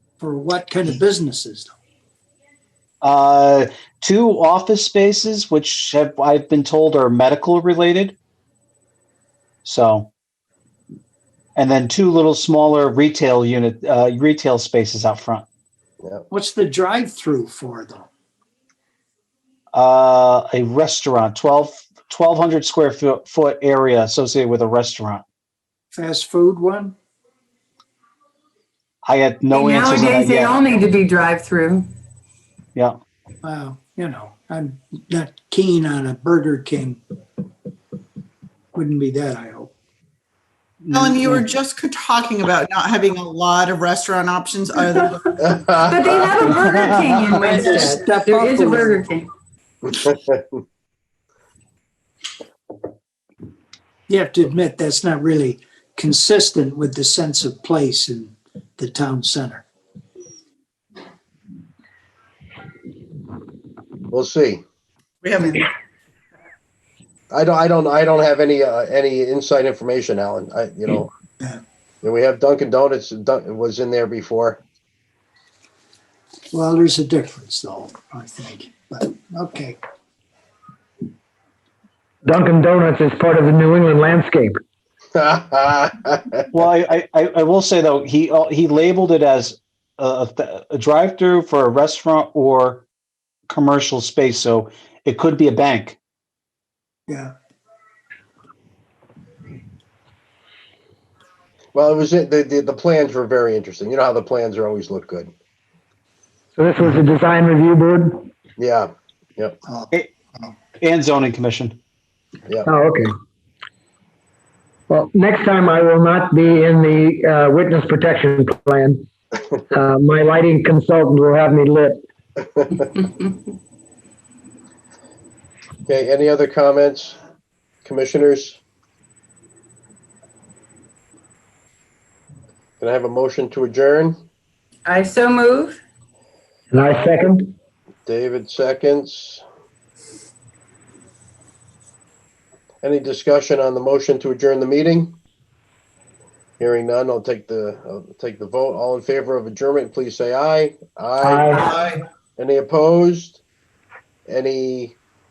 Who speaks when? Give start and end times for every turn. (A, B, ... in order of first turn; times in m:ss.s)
0:00.2-0:01.7 A
0:03.0-0:08.2 B
0:09.6-0:10.1 B
0:11.6-0:15.4 B
0:16.3-0:18.1 A
0:19.7-0:25.2 B
0:25.9-0:27.0 A
0:29.0-0:30.6 B
0:29.5-0:31.9 C
0:33.4-0:37.0 A
0:38.7-0:39.7 A
0:40.8-0:41.3 B
0:40.9-0:45.8 D
0:45.4-0:46.0 E
0:45.8-0:49.3 C
0:47.3-0:48.0 D
0:47.4-0:49.0 A
0:50.0-0:50.4 E
0:54.1-0:59.6 A
1:04.1-1:04.6 E
1:05.2-1:05.7 D
1:07.3-1:11.1 E
1:12.0-1:14.6 E
1:16.5-1:19.8 A
1:22.2-1:24.6 F
1:25.1-1:26.4 E
1:26.5-1:32.8 B
1:33.5-1:36.0 B
1:37.1-1:37.3 A
1:41.7-1:45.3 E
1:46.6-1:48.3 F
1:48.6-1:49.6 E
1:50.8-1:51.8 B
1:52.6-1:53.1 F
1:54.9-1:59.0 F
1:59.7-2:02.0 F
2:02.6-2:02.9 E
2:05.9-2:07.2 E
2:07.8-2:08.6 E
2:12.8-2:14.2 E
2:14.9-2:15.8 C
2:16.7-2:17.5 F
2:18.1-2:19.4 E
2:22.8-2:25.1 E
2:26.6-2:31.6 E
2:31.2-2:31.8 F
2:31.6-2:32.0 D
2:32.4-2:33.4 E
2:34.3-2:35.0 E